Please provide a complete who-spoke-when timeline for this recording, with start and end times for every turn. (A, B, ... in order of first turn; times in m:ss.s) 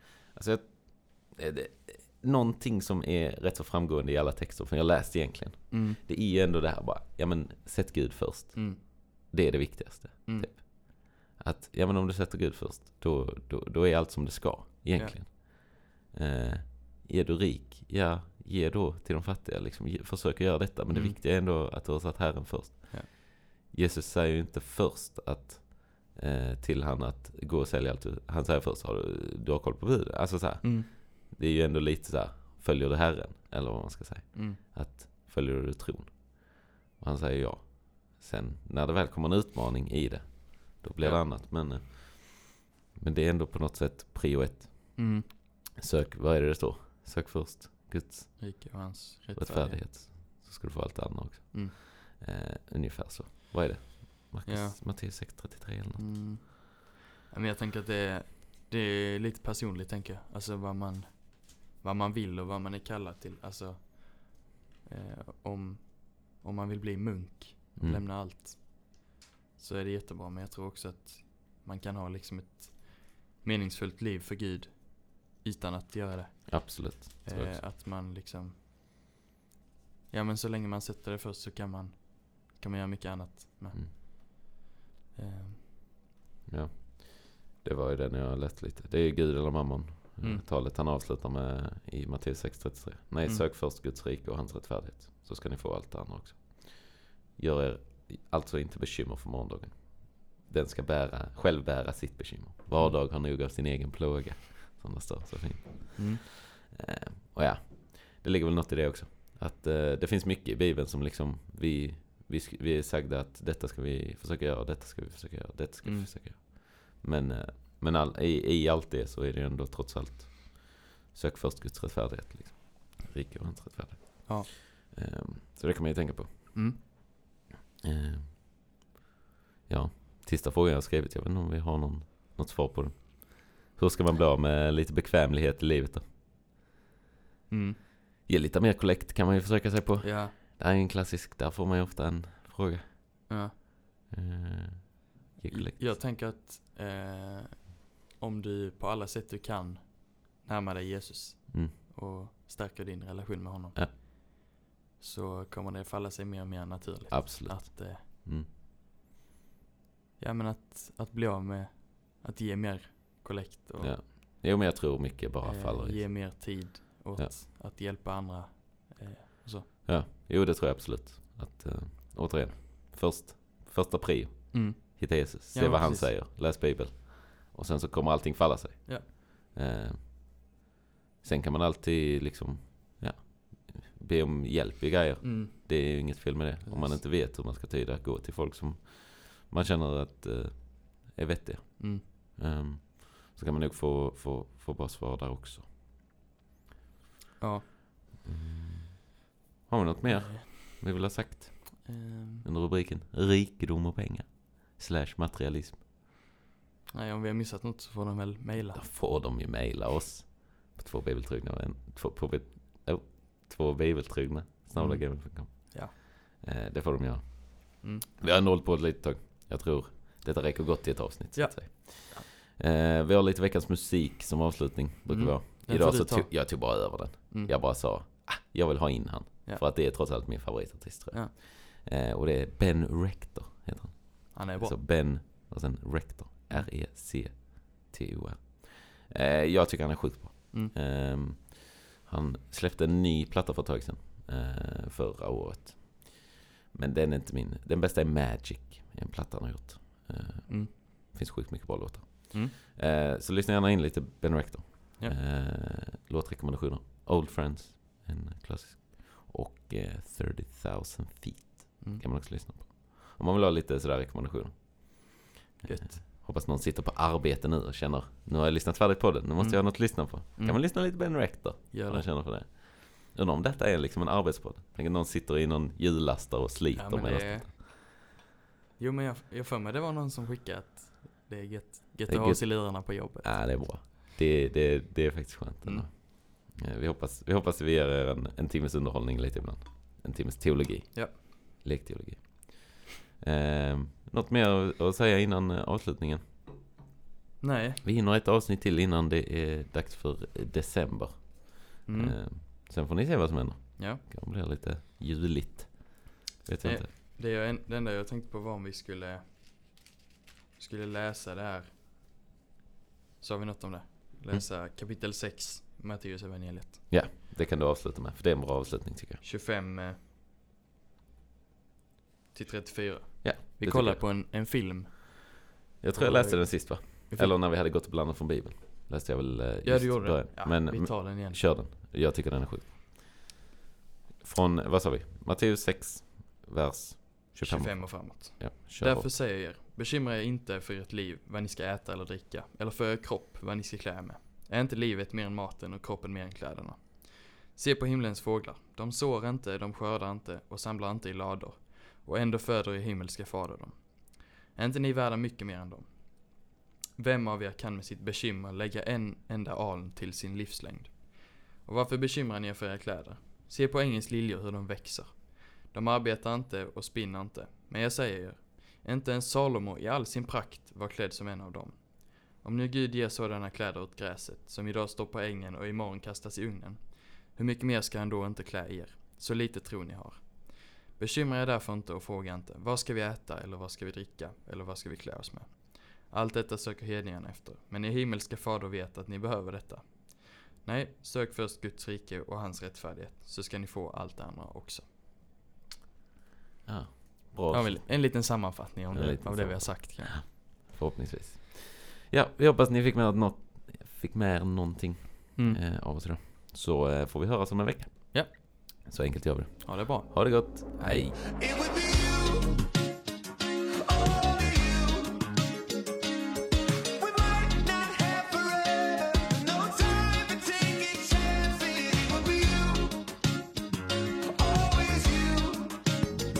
0:00.3-0:48.6 A
0:05.7-0:06.0 B
0:08.5-0:08.8 B
0:10.2-0:10.6 B
0:20.9-0:21.2 B
0:30.6-0:30.9 B
0:34.3-0:34.6 B
0:45.0-0:45.3 B
0:48.4-0:49.8 B
0:49.3-0:56.0 A
0:54.4-0:54.8 B
0:56.0-1:18.6 B
1:07.8-1:08.0 A
1:16.5-1:17.6 A
1:20.1-1:24.1 B
1:25.1-1:25.7 B
1:26.5-2:06.9 A
1:46.0-1:46.2 B
1:55.8-1:56.1 B
2:06.5-2:06.8 B
2:07.8-2:08.4 A
2:09.7-2:16.1 A
2:17.5-2:17.8 B
2:18.2-2:23.2 A
2:20.0-2:20.3 B
2:23.3-2:23.5 B
2:24.1-2:25.9 A
2:25.5-2:34.2 B
2:35.0-2:38.0 B
2:37.1-2:38.5 A
2:40.2-2:44.0 B
2:43.8-2:46.4 A
2:45.4-2:49.7 B
2:49.8-3:00.3 A
2:54.5-2:56.1 B
3:01.2-3:15.7 A
3:05.2-3:05.7 B
3:06.6-3:07.0 B
3:17.4-3:17.7 B
3:18.2-3:19.0 A
3:19.7-3:21.9 A
3:20.0-3:20.5 B
3:21.8-3:22.4 B
3:22.4-3:25.8 A
3:26.9-3:28.8 B
3:28.7-4:37.6 A
3:34.8-3:35.9 B
3:37.8-3:38.1 B
3:41.3-3:42.3 B
3:45.1-3:46.5 B
3:54.3-3:54.8 B
4:10.5-4:10.7 B
4:25.6-4:26.0 B
4:29.4-4:30.6 B
4:31.7-4:32.0 B
4:36.7-4:37.7 B
4:38.8-4:43.7 B
4:42.1-4:56.2 A
4:50.9-4:51.2 B
4:57.4-4:57.8 B
4:57.8-5:06.9 A
5:01.8-5:02.2 B
5:03.8-5:04.0 B
5:06.6-5:09.2 B
5:10.6-5:11.7 B
5:13.2-5:16.9 B
5:16.9-5:19.2 A
5:19.2-5:20.0 B
5:22.3-5:27.4 B
5:23.2-5:24.0 A
5:25.8-5:33.2 A
5:29.6-5:31.4 B
5:34.2-5:39.1 A
5:37.4-6:35.0 B
6:36.6-6:37.9 A
6:37.5-6:40.2 B
6:38.9-6:51.2 A
6:48.1-6:48.4 B
6:49.6-6:51.0 B
6:50.9-6:52.7 C
6:53.8-6:55.4 C
6:56.9-7:03.2 C
7:04.2-7:05.9 C